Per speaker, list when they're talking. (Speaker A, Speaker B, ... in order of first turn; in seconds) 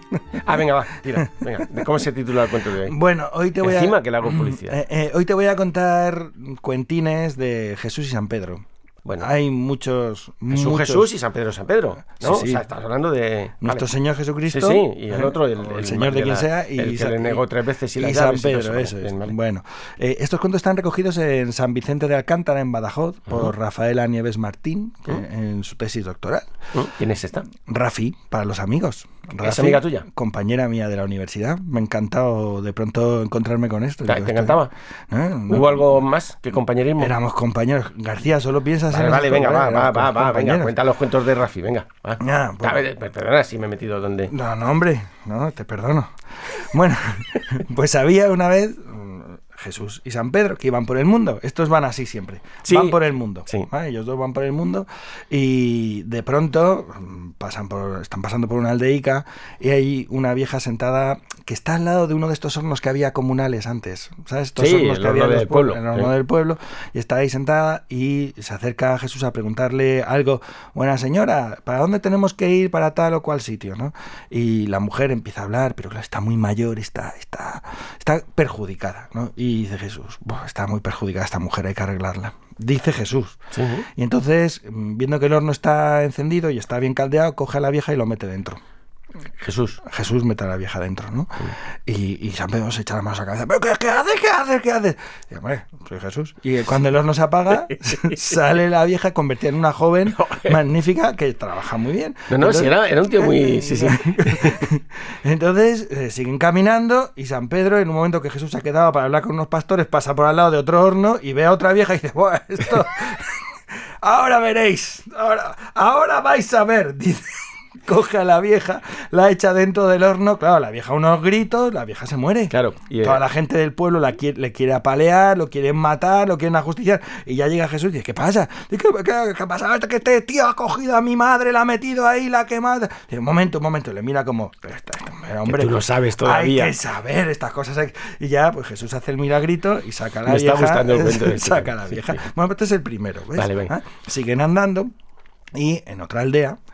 Speaker A: 0.4-3.0, 3.6-4.8, 9.0-9.3, 10.5-13.9, 14.4-19.3, 26.7-27.5, 29.4-30.1, 34.0-34.7, 35.5-37.1, 38.9-44.3, 52.6-53.7, 64.6-66.1, 83.5-83.9, 89.4-89.8, 97.9-98.1, 100.2-100.5, 102.3-104.6, 122.5-123.2, 135.4-136.8, 140.2-142.2, 143.3-143.8
Speaker B: 1.1-1.6, 2.7-8.6, 9.2-11.1, 12.2-12.6, 13.6-26.5, 27.6-36.0, 37.0-40.7, 42.2-42.8, 44.3-83.4, 84.0-88.6, 89.8-113.4, 114.0-144.9, 145.5-146.6